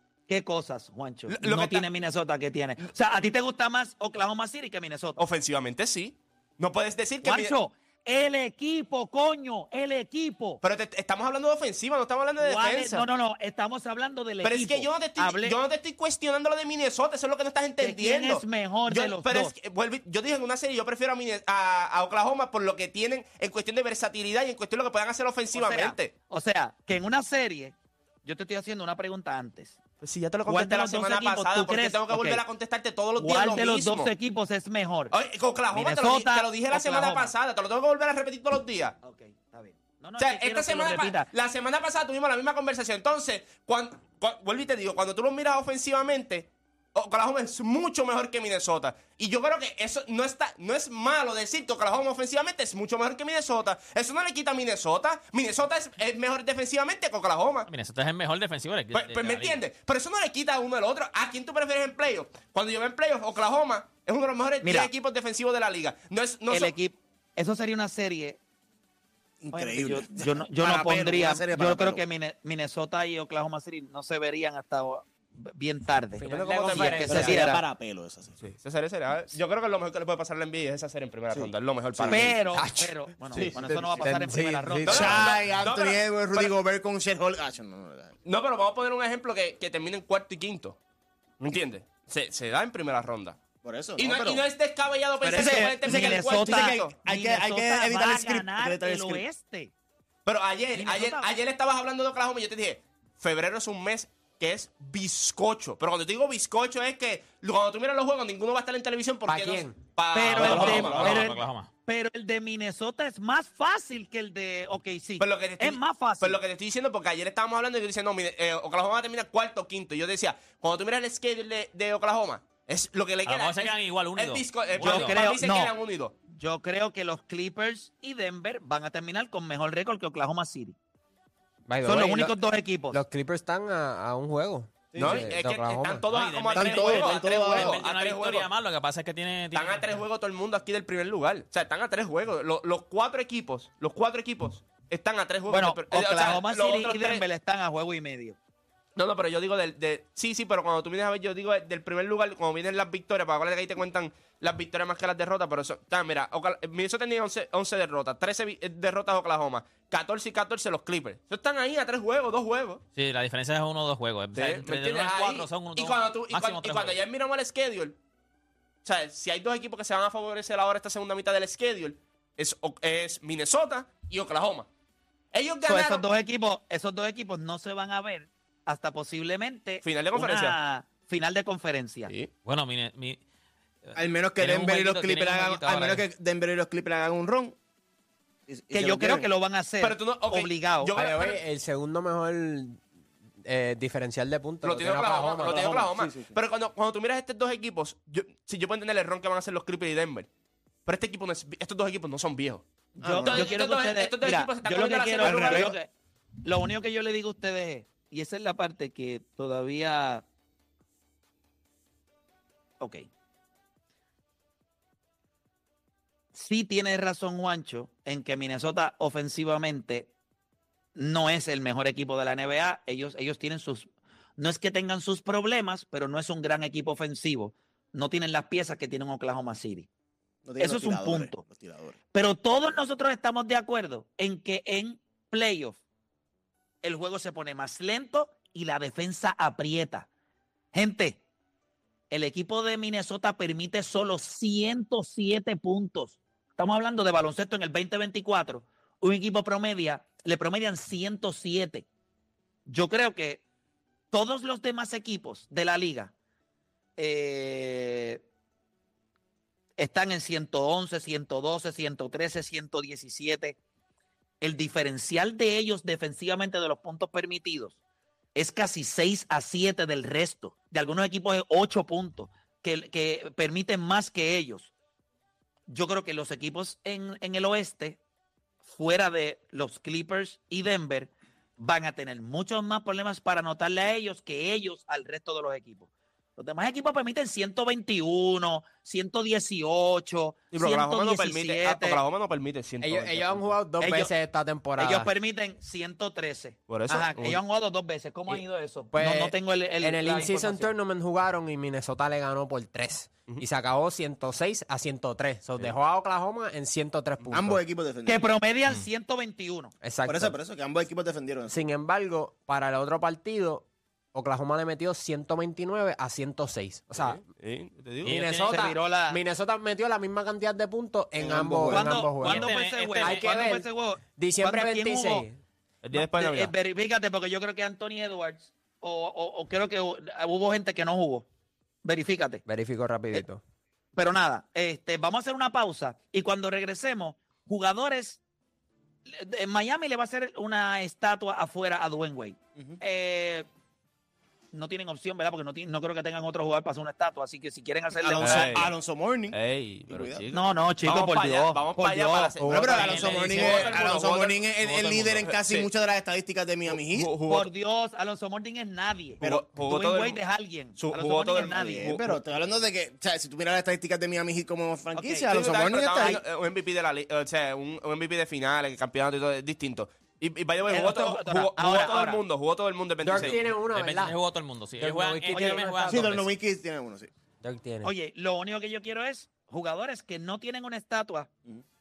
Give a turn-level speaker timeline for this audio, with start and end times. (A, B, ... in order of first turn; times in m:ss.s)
0:00.3-0:05.2 A
0:01.3-0:01.8 B
0:05.2-0:07.5 B
0:07.2-0:10.6 A
0:10.6-0:13.0 B
0:12.4-0:15.6 A
0:14.4-0:26.1 B
0:17.8-0:19.5 A
0:25.5-0:29.8 A
0:30.0-0:34.1 B
0:30.4-0:32.4 A
0:33.2-0:35.1 A
0:35.1-0:39.0 B
0:35.7-0:37.3 A
0:39.0-0:41.3 A
0:40.2-0:57.7 B
0:57.6-0:59.6 C
0:58.9-1:06.7 B
1:04.6-1:04.9 A
1:06.5-1:08.4 A
1:09.4-1:12.0 D
1:09.5-1:17.6 A
1:16.2-1:17.4 E
1:16.2-1:17.3 B
1:16.7-1:18.4 D
1:18.4-1:22.4 B
1:21.3-1:22.3 D
1:22.1-1:25.3 A
1:22.5-1:25.2 E
1:23.3-1:24.2 D
1:24.8-1:26.5 B
1:24.8-1:28.1 D
1:28.2-1:30.8 B
1:31.4-1:33.4 B
1:33.6-1:34.4 D
1:34.0-1:36.9 B
1:35.2-1:39.7 A
1:35.3-1:39.2 D
1:40.2-1:51.3 B
1:40.7-1:41.3 A
1:49.3-1:49.8 E
1:50.1-1:56.4 A
1:50.3-1:51.7 C
1:55.2-2:06.1 B
2:03.2-2:05.2 C
2:04.8-2:05.7 A
2:06.3-2:10.8 A
2:11.7-2:12.4 E
2:11.8-2:13.0 A
2:12.9-2:16.0 E
2:15.0-2:15.3 D
2:15.0-2:18.5 B
2:16.1-2:19.9 C
2:16.6-2:17.8 D
2:19.5-2:27.2 B
2:25.5-2:28.4 A
2:29.0-2:42.8 B
2:42.9-2:47.0 C
2:44.3-2:48.0 B
2:48.8-2:54.7 B
2:55.3-2:56.0 B
2:55.6-3:02.1 A
2:59.8-3:00.6 B
3:02.4-3:03.2 C
3:03.8-3:06.0 C
3:04.0-3:07.6 D
3:08.5-3:09.3 D
3:08.7-3:10.9 A
3:09.8-3:11.4 B
3:10.9-3:12.8 E
3:13.4-3:15.9 E
3:14.6-3:20.3 B
3:15.2-3:16.3 D
3:20.8-3:22.6 B
3:23.0-3:23.5 D
3:23.0-3:25.9 A
3:23.2-3:25.8 B
3:25.2-3:25.8 D
3:26.4-3:30.2 A
3:32.8-3:33.1 A
3:36.3-3:40.1 A
3:40.9-3:49.9 A
3:50.4-3:52.0 D
3:50.6-3:51.4 A
3:52.1-3:55.8 A
3:56.8-4:00.1 A
4:00.7-4:01.2 A
4:02.1-4:11.8 A
4:12.6-4:13.4 A
4:14.1-4:16.1 A
4:17.0-4:18.2 A
4:19.8-4:23.6 A
4:24.4-4:27.8 A
4:28.3-4:34.7 A
4:35.7-4:38.0 A
4:38.6-4:52.0 A
4:50.5-4:53.6 B
4:52.8-4:55.1 E
4:53.8-4:54.1 A
4:54.8-5:00.7 A
4:56.7-4:57.4 B
4:58.9-5:07.6 E
5:07.3-5:08.2 D
5:08.0-5:09.7 A
5:09.8-5:10.4 E
5:10.0-5:11.6 D
5:11.5-5:17.2 E
5:17.0-5:18.1 B
5:18.0-5:25.4 E
5:18.0-5:19.2 A
5:21.2-5:21.9 D
5:21.7-5:25.2 A
5:22.2-5:23.2 C
5:25.8-5:26.5 B
5:25.9-5:31.3 A
5:31.8-5:32.4 A
5:32.4-5:33.4 E
5:33.9-5:38.2 A
5:39.0-5:43.5 A
5:44.5-5:48.7 A
5:47.9-5:49.4 D
5:48.2-5:48.7 B
5:49.3-5:55.7 B
5:49.9-5:50.2 D
5:50.3-5:52.3 A
5:52.4-5:57.1 D
5:52.4-5:52.8 E
5:52.8-5:55.2 C
5:56.6-5:57.5 B
5:57.2-6:01.9 A
5:59.2-6:00.2 B
6:00.8-6:02.2 B
6:01.3-6:06.2 D
6:04.9-6:06.2 A
6:05.3-6:13.5 B
6:10.6-6:12.2 A
6:13.0-6:14.2 E
6:13.1-6:16.1 C
6:14.8-6:16.3 E
6:15.3-6:15.9 A
6:15.9-6:17.1 D
6:17.4-6:17.9 E
6:17.8-6:21.3 A